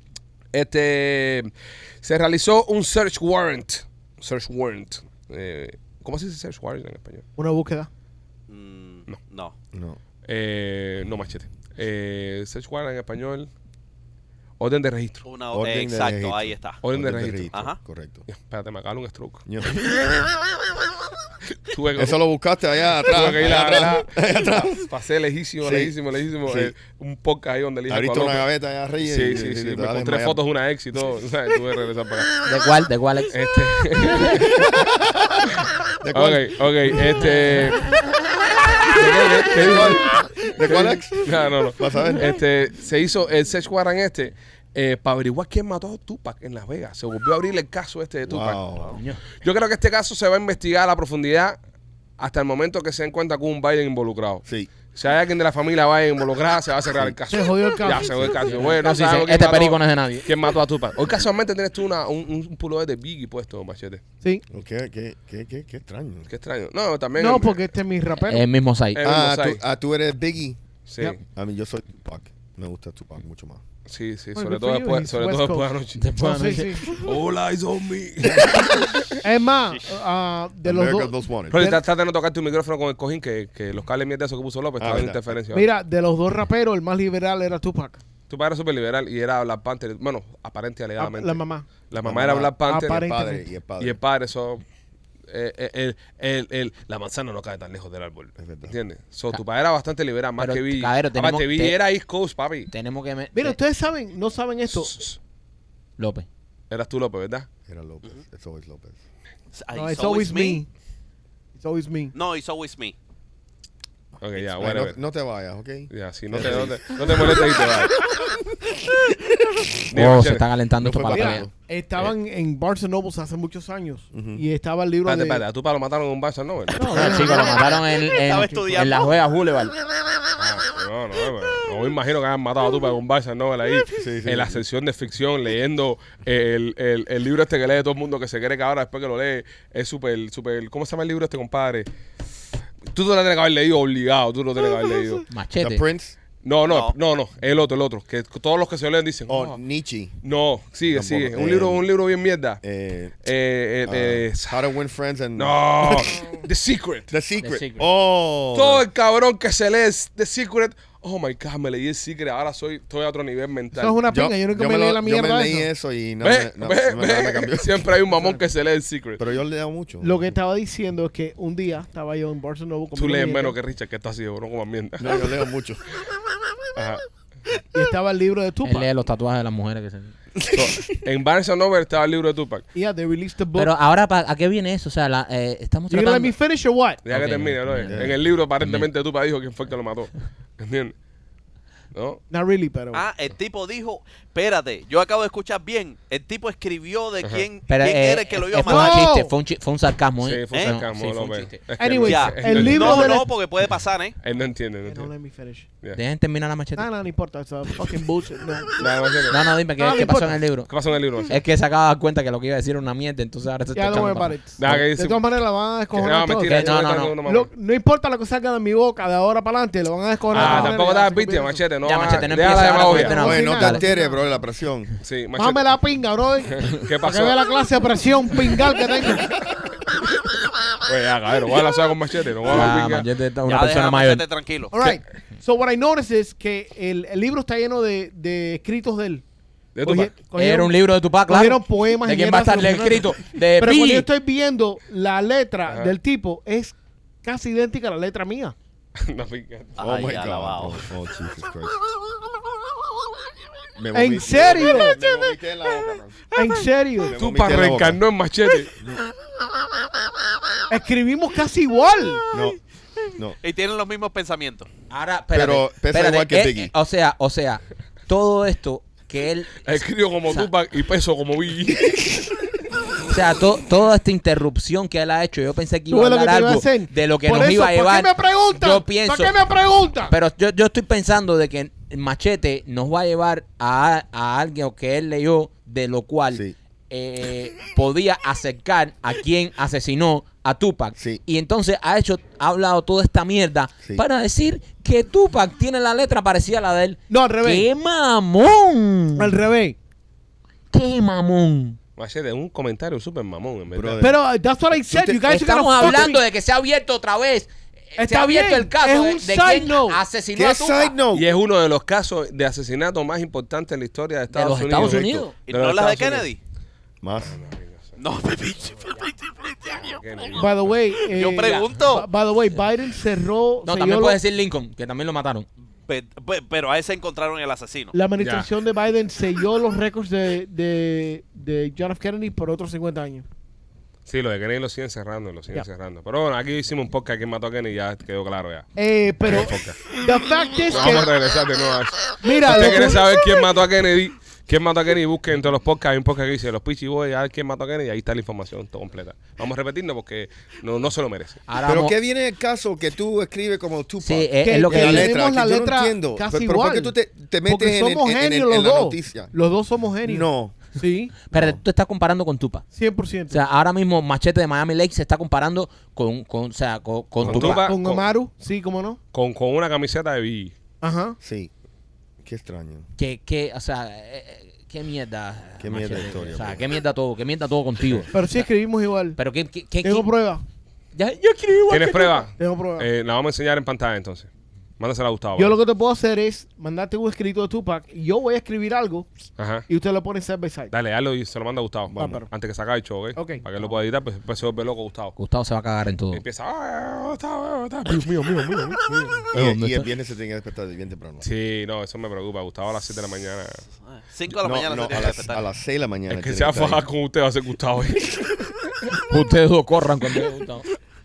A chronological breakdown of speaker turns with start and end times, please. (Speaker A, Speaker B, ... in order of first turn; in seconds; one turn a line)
Speaker A: 0.5-1.5
Speaker A: 2.0-7.2
Speaker B: 7.4-7.9
Speaker C: 8.5-9.5
Speaker D: 9.7-10.0
Speaker A: 10.2-13.5
Speaker A: 14.6-15.2
Speaker C: 15.2-16.8
Speaker D: 15.5-18.3
Speaker A: 16.8-17.6
Speaker C: 17.5-17.8
Speaker A: 18.3-19.4
Speaker D: 19.4-19.8
Speaker A: 21.7-22.2
Speaker D: 21.9-24.8
Speaker A: 23.1-24.1
Speaker A: 24.6-28.4
Speaker D: 25.6-25.9
Speaker D: 26.4-26.7
Speaker D: 27.9-30.4
Speaker A: 29.0-32.3
Speaker E: 32.5-33.3
Speaker A: 33.3-34.7
Speaker A: 35.6-37.9
Speaker D: 36.0-37.0
Speaker A: 38.9-48.6
Speaker E: 39.0-39.8
Speaker D: 39.4-42.3
Speaker D: 48.2-49.0
Speaker E: 48.9-49.2
Speaker A: 49.4-51.6
Speaker A: 52.2-64.0
Speaker D: 54.4-54.7
Speaker D: 56.9-57.2
Speaker B: 57.3-58.2
Speaker D: 57.9-58.3
Speaker E: 58.4-60.3
Speaker D: 64.5-66.3
Speaker A: 66.3-67.7
Speaker B: 67.2-68.5
Speaker E: 68.2-69.1
Speaker A: 68.9-69.6
Speaker D: 69.0-70.6
Speaker A: 70.9-71.2
Speaker D: 71.3-73.6
Speaker A: 73.9-76.1
Speaker B: 74.3-77.1
Speaker E: 76.0-76.8
Speaker A: 77.0-79.2
Speaker B: 79.2-81.8
Speaker D: 80.6-81.6
Speaker A: 81.5-85.7
Speaker D: 84.8-85.4
Speaker B: 85.5-88.0
Speaker A: 88.3-93.0
Speaker B: 91.0-91.7
Speaker D: 92.0-94.0
Speaker B: 92.6-93.4
Speaker A: 93.8-94.6
Speaker A: 95.3-102.7
Speaker D: 98.4-98.8
Speaker E: 100.4-101.8
Speaker E: 102.7-103.6
Speaker B: 103.3-104.9
Speaker A: 104.7-105.2
Speaker E: 106.0-106.3
Speaker A: 106.7-107.5
Speaker D: 107.7-109.0
Speaker C: 109.5-110.6
Speaker B: 109.7-110.7
Speaker B: 111.5-112.1
Speaker C: 112.1-112.9
Speaker A: 114.2-115.0
Speaker D: 114.4-117.4
Speaker A: 115.9-117.9
Speaker A: 119.9-120.5
Speaker E: 119.9-121.5
Speaker D: 120.8-121.5
Speaker B: 121.1-125.4
Speaker D: 124.1-124.4
Speaker A: 125.0-127.3
Speaker B: 126.7-128.9
Speaker E: 126.9-129.7
Speaker C: 128.0-129.1
Speaker A: 130.4-141.9
Speaker D: 133.9-134.6
Speaker A: 142.9-145.2
Speaker E: 145.3-145.8
Speaker D: 145.6-146.2
Speaker A: 146.4-149.6
Speaker C: 146.7-146.9
Speaker D: 149.3-150.2
Speaker A: 150.2-152.6
Speaker D: 150.9-151.8
Speaker D: 152.6-153.2
Speaker A: 153.2-154.6
Speaker D: 153.8-156.1
Speaker A: 155.3-157.1
Speaker D: 157.1-158.8
Speaker E: 157.4-157.9
Speaker A: 158.5-164.0
Speaker B: 163.7-165.7
Speaker D: 164.1-168.4
Speaker A: 166.2-169.2
Speaker D: 169.2-170.3
Speaker B: 170.0-173.6
Speaker A: 172.9-175.4
Speaker D: 175.0-175.8
Speaker A: 176.7-177.0
Speaker B: 177.7-178.9
Speaker E: 178.6-180.1
Speaker A: 180.5-182.7
Speaker B: 182.7-183.7
Speaker E: 183.5-186.3
Speaker B: 185.9-187.0
Speaker A: 187.0-190.9
Speaker E: 187.1-188.0
Speaker D: 187.9-188.2
Speaker E: 188.6-188.9
Speaker A: 191.9-192.2
Speaker B: 192.3-193.1
Speaker C: 192.9-199.1
Speaker E: 197.7-202.7
Speaker B: 198.7-199.3
Speaker A: 200.2-203.1
Speaker B: 201.8-203.3
Speaker C: 202.1-204.1
Speaker A: 204.2-205.1
Speaker B: 204.8-205.7
Speaker E: 205.9-206.9
Speaker B: 206.8-208.9
Speaker A: 208.8-209.4
Speaker E: 209.3-210.7
Speaker B: 209.8-210.6
Speaker A: 210.7-211.3
Speaker E: 211.3-214.8
Speaker B: 213.7-221.6
Speaker A: 214.6-215.2
Speaker A: 215.9-217.5
Speaker E: 216.4-217.2
Speaker A: 220.3-223.3
Speaker E: 220.3-220.7
Speaker E: 221.8-223.8
Speaker B: 222.4-224.2
Speaker D: 223.1-224.9
Speaker A: 225.0-225.6
Speaker B: 225.3-229.4
Speaker A: 226.6-227.4
Speaker A: 230.8-233.1
Speaker E: 232.5-234.2
Speaker C: 233.4-234.7
Speaker B: 234.7-239.2
Speaker A: 239.8-240.1
Speaker B: 239.8-248.5
Speaker E: 240.3-244.1
Speaker A: 245.7-245.9
Speaker A: 249.0-249.8
Speaker C: 249.8-250.8
Speaker D: 249.8-251.8
Speaker D: 253.8-256.2
Speaker B: 253.9-255.0
Speaker B: 256.3-257.2
Speaker D: 257.0-258.0
Speaker A: 257.1-258.7
Speaker B: 260.7-262.2
Speaker D: 262.3-262.6
Speaker C: 263.4-264.7
Speaker E: 264.9-270.5
Speaker D: 265.3-266.7
Speaker A: 269.6-272.3
Speaker E: 273.1-279.4
Speaker B: 275.9-280.1
Speaker E: 280.1-299.3
Speaker D: 291.0-291.2
Speaker B: 297.1-297.7
Speaker B: 299.2-299.8
Speaker E: 300.7-301.8
Speaker A: 302.0-304.0
Speaker D: 303.7-304.2
Speaker B: 304.0-306.2
Speaker D: 304.8-305.9
Speaker E: 305.3-310.9
Speaker B: 308.0-310.0
Speaker D: 310.3-311.3
Speaker A: 311.1-316.3
Speaker E: 314.3-315.3
Speaker D: 314.8-315.1
Speaker C: 315.5-316.4
Speaker D: 317.0-317.4
Speaker A: 317.2-318.0
Speaker C: 318.0-320.4
Speaker A: 319.9-320.8
Speaker B: 320.4-324.2
Speaker C: 321.1-322.1
Speaker E: 323.6-325.4
Speaker C: 325.9-327.9
Speaker B: 327.9-333.2
Speaker A: 328.2-328.5
Speaker A: 334.1-338.7
Speaker B: 338.8-341.2
Speaker A: 339.2-340.0
Speaker A: 340.7-351.4
Speaker B: 342.2-343.0
Speaker E: 351.5-351.9
Speaker D: 351.6-359.3
Speaker E: 354.0-355.1
Speaker B: 354.4-361.1
Speaker D: 360.0-360.7
Speaker E: 361.3-362.6
Speaker D: 361.3-361.6
Speaker B: 362.7-363.4
Speaker E: 363.3-367.6
Speaker A: 367.2-368.1
Speaker B: 367.2-369.0
Speaker A: 369.1-370.5
Speaker B: 370.8-371.2
Speaker D: 371.2-371.5
Speaker D: 372.2-372.9
Speaker E: 373.0-378.4
Speaker D: 375.6-376.7
Speaker B: 378.1-379.2
Speaker E: 379.1-380.1
Speaker B: 379.8-380.4
Speaker E: 380.9-382.3
Speaker A: 381.7-384.3
Speaker B: 382.4-382.9
Speaker A: 384.8-385.6
Speaker B: 385.4-389.1
Speaker A: 389.4-389.7
Speaker B: 389.7-390.7
Speaker A: 390.7-395.1
Speaker D: 391.9-392.2
Speaker B: 392.0-392.3
Speaker B: 393.1-393.7
Speaker E: 395.1-396.2
Speaker A: 396.1-399.3
Speaker D: 399.3-401.2
Speaker E: 399.3-399.9
Speaker A: 401.2-403.6
Speaker C: 403.9-405.4
Speaker D: 404.4-406.9
Speaker A: 406.1-409.0
Speaker E: 409.1-410.7